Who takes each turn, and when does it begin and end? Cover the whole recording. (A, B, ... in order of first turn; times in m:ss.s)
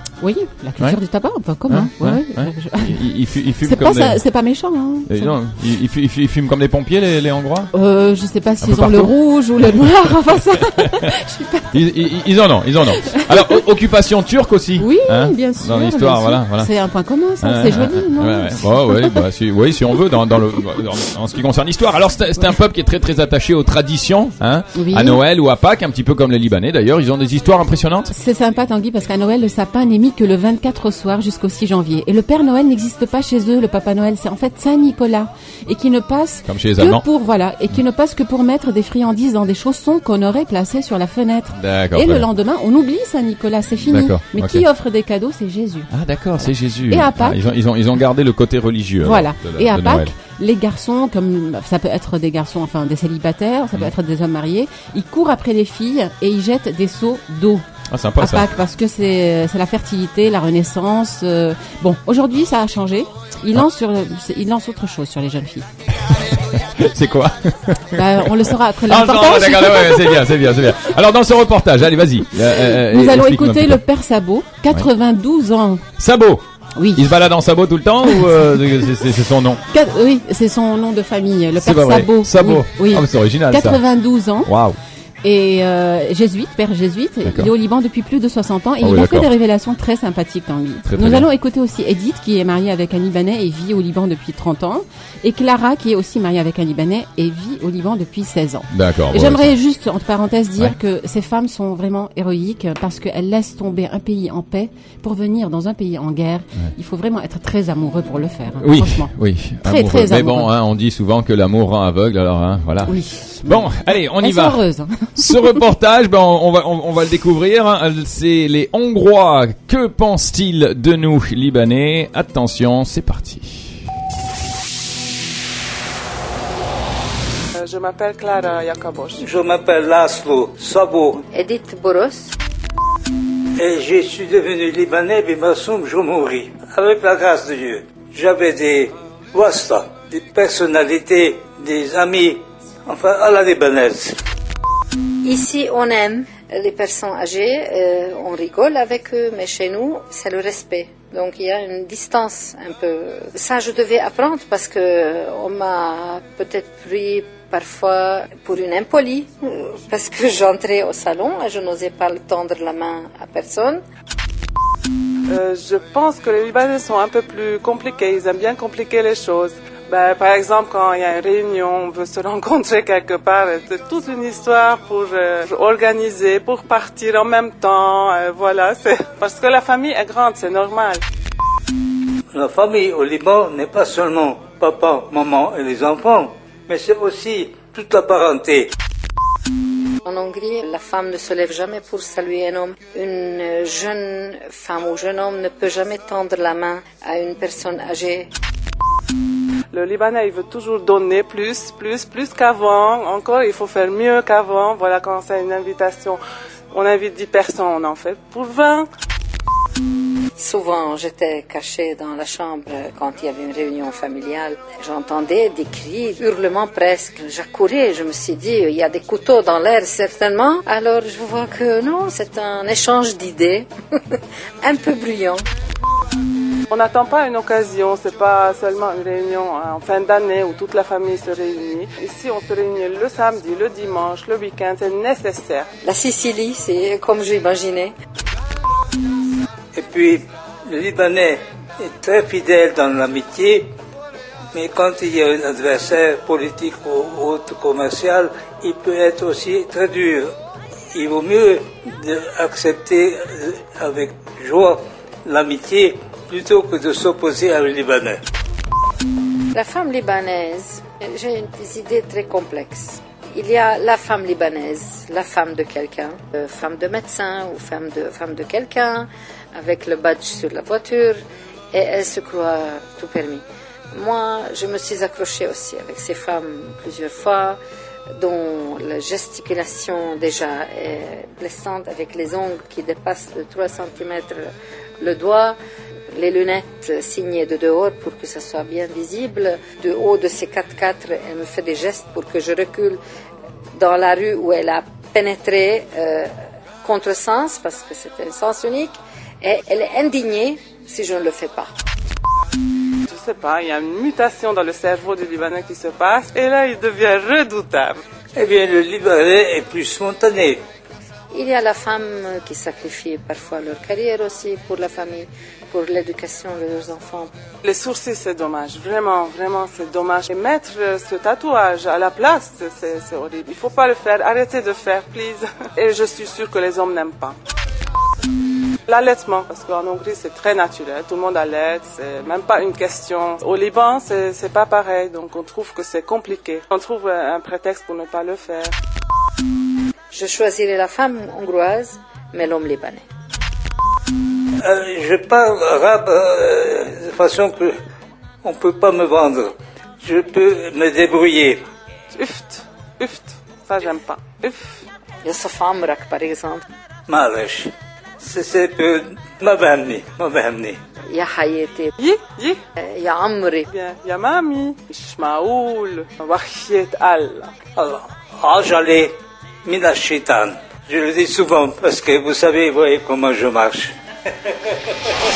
0:00.2-0:03.0 A
0:01.7-0:04.2 B
0:03.6-0:05.4 A
0:05.1-0:07.7 B
0:07.7-0:11.8 A
0:08.6-0:09.1 B
0:11.7-0:16.7 B
0:14.8-0:19.2 A
0:17.4-0:28.1 B
0:24.7-0:25.2 A
0:28.1-0:45.9 A
0:36.4-0:37.0 B
0:41.5-0:42.3 B
0:43.8-0:44.6 B
0:45.9-0:50.1 B
0:46.4-0:47.4 A
0:49.0-0:57.6 A
0:57.9-0:58.5 B
0:58.2-1:05.6 A
1:06.1-1:08.3 B
1:07.9-1:10.2 A
1:08.9-1:13.8 B
1:12.4-1:15.8 A
1:16.0-1:19.6 B
1:16.8-1:17.0 A
1:19.7-1:24.5 A
1:21.5-1:23.8 B
1:24.4-1:24.8 B
1:25.2-1:50.5 A
1:27.2-1:27.5 B
1:28.8-1:29.3 B
1:30.8-1:31.3 B
1:38.7-1:39.5 B
1:48.6-1:54.6 B
1:52.8-1:55.4 A
1:55.2-2:03.8 B
2:07.5-2:09.2 C
2:09.2-2:11.2 D
2:11.3-2:12.4 E
2:13.6-2:24.2 D
2:25.2-2:43.8 E
2:45.3-3:01.0 C
3:02.3-3:08.7 D
3:10.0-3:18.3 E
3:19.7-3:26.2 C
3:26.7-3:28.9 C
3:30.4-3:43.7 E
3:44.6-3:45.4 E
3:46.7-3:55.7 C
3:55.8-3:57.9 E
3:59.7-4:03.7 D
4:04.5-4:10.3 D
4:10.9-4:18.2 D
4:19.5-4:31.2 E
4:31.7-4:37.6 E
4:38.2-4:44.5 E
4:45.0-4:45.6 E
4:46.1-4:53.0 E
4:53.8-4:56.3 E
4:56.8-5:01.7 E
5:03.1-5:08.0 C
5:08.3-5:10.6 D
5:11.3-5:17.3 E
5:17.6-5:27.4 C
5:28.9-5:38.7 C
5:40.1-5:43.0 E
5:44.6-5:47.8 D
5:48.4-5:51.6 D
5:52.1-5:54.8 C
5:55.2-5:56.6 E
5:57.1-6:00.8 D
6:01.1-6:01.9 E
6:02.0-6:02.6 C
6:02.8-6:03.7 E
6:03.7-6:07.5 C
6:07.8-6:13.9 D